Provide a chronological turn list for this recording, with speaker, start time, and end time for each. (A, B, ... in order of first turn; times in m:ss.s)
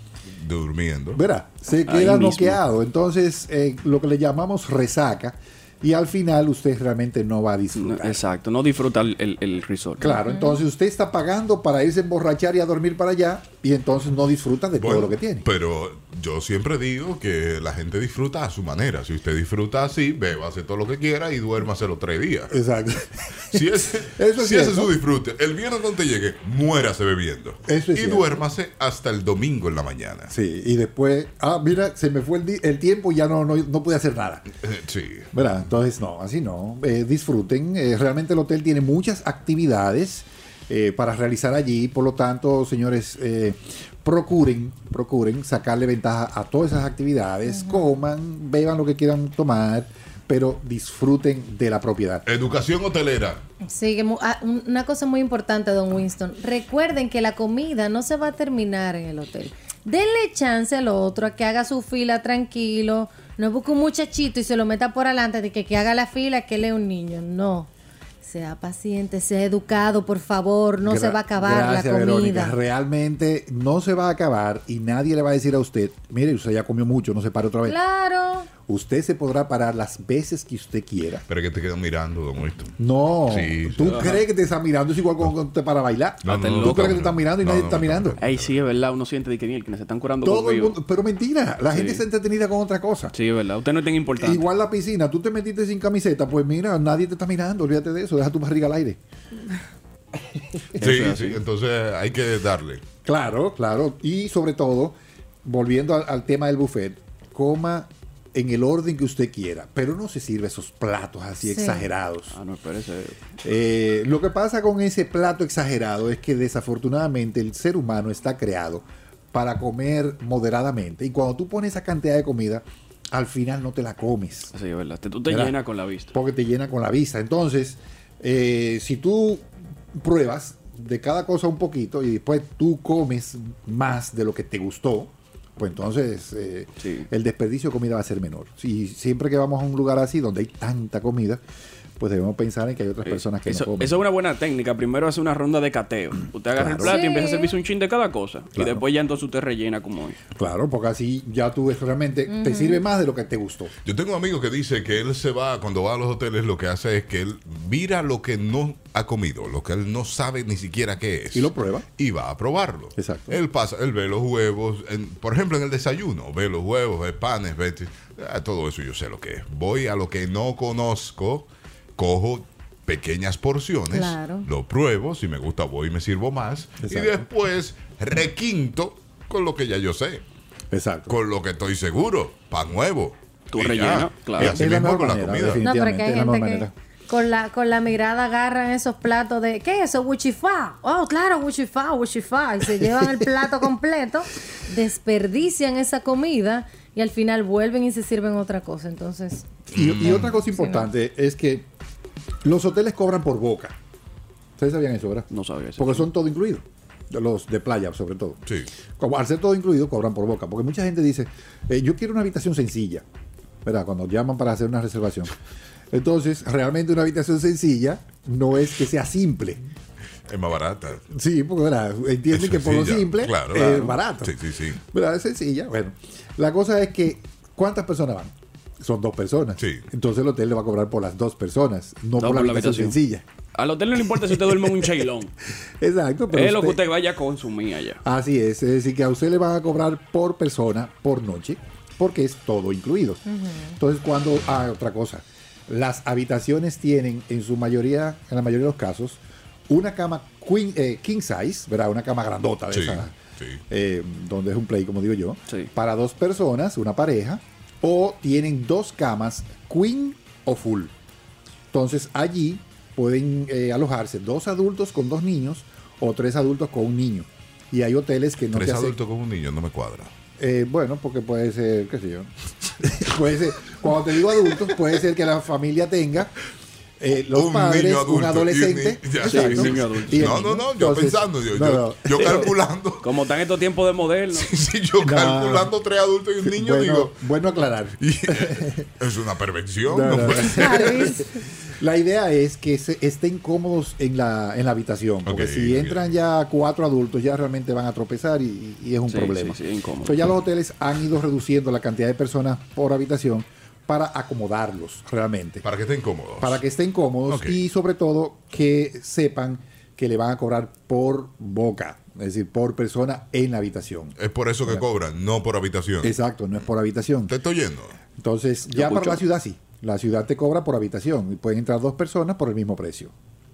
0:00.3-0:01.2 A
0:01.1-0:08.2 B
0:01.9-0:02.6 C
0:07.8-0:10.1 C
0:10.0-0:15.4 B
0:10.0-0:10.6 D
0:14.8-0:22.5 A
0:22.5-0:24.9 B
0:23.5-0:30.3 A
0:27.7-0:28.4 B
0:30.3-0:34.4 B
0:34.6-0:35.3 A
0:35.3-0:52.2 B
0:47.5-0:47.8 D
0:52.2-0:53.4 A
0:53.7-1:07.7 D
1:08.2-1:12.5 D
1:10.8-1:17.8 B
1:17.6-1:18.5 D
1:18.7-1:21.2 B
1:21.3-1:22.8 A
1:22.8-1:28.2 B
1:23.3-1:23.9 A
1:23.8-1:24.2 C
1:26.2-1:28.6 A
1:26.2-1:27.0 C
1:28.2-1:30.8 C
1:30.2-1:33.1 B
1:31.7-1:32.0 C
1:33.1-1:34.4 C
1:34.2-1:39.0 B
1:40.8-1:41.4 C
1:40.8-1:42.8 A
1:43.0-1:52.4 B
1:51.4-1:51.9 D
1:52.3-1:53.2 C
1:53.4-2:04.5 B
2:04.5-2:06.1 C
2:05.3-2:05.6 B
2:06.1-2:21.4 B
2:16.8-2:17.1 C
2:22.0-2:24.0 B
2:23.0-2:30.2 C
2:26.6-2:26.9 B
2:26.8-2:27.5 D
2:28.5-2:28.8 B
2:30.3-2:33.7 B
2:32.3-2:32.8 D
2:33.8-3:00.2 A
2:41.3-2:41.8 B
2:43.0-2:43.4 B
2:53.9-2:54.5 D
2:56.8-2:57.2 B
3:00.7-3:01.2 B
3:01.1-3:05.6 A
3:03.5-3:04.6 C
3:04.4-3:06.7 B
3:05.6-3:19.5 D
3:12.8-3:13.1 B
3:19.7-3:21.7 B
3:19.7-3:20.3 A
3:20.0-3:20.9 D
3:22.4-3:23.8 B
3:24.6-3:28.4 B
3:25.3-3:26.1 C
3:29.0-3:33.0 B
3:33.6-3:35.3 B
3:35.9-3:39.6 B
3:40.3-3:41.0 A
3:41.1-3:53.2 B
3:42.3-3:44.8 A
3:43.6-3:43.9 C
3:49.6-3:49.8 A
3:52.2-3:53.0 C
3:53.5-3:55.3 C
3:54.3-3:54.9 B
3:55.8-3:56.8 B
3:56.3-3:58.0 C
3:58.0-4:03.2 B
4:03.3-4:03.7 D
4:03.8-4:13.1 B
4:12.7-4:13.6 A
4:13.7-4:20.9 B
4:21.7-4:29.0 B
4:28.5-4:30.1 A
4:30.4-4:36.3 B
4:37.0-4:42.5 B
4:37.3-4:43.0 A
4:39.2-4:40.4 C
4:42.2-4:42.5 C
4:43.0-4:44.5 C
4:44.3-4:47.2 A
4:45.0-4:45.7 B
4:46.4-4:48.8 B
4:48.0-4:51.1 A
4:49.9-5:05.6 B
4:50.4-4:51.3 D
4:55.2-4:56.1 A
4:59.1-5:00.2 C
5:05.6-5:06.6 A
5:06.4-5:14.8 B
5:07.3-5:07.6 A
5:14.2-5:16.1 A
5:16.0-5:17.3 B
5:17.3-5:18.0 A
5:18.2-5:23.1 B
5:18.7-5:19.2 C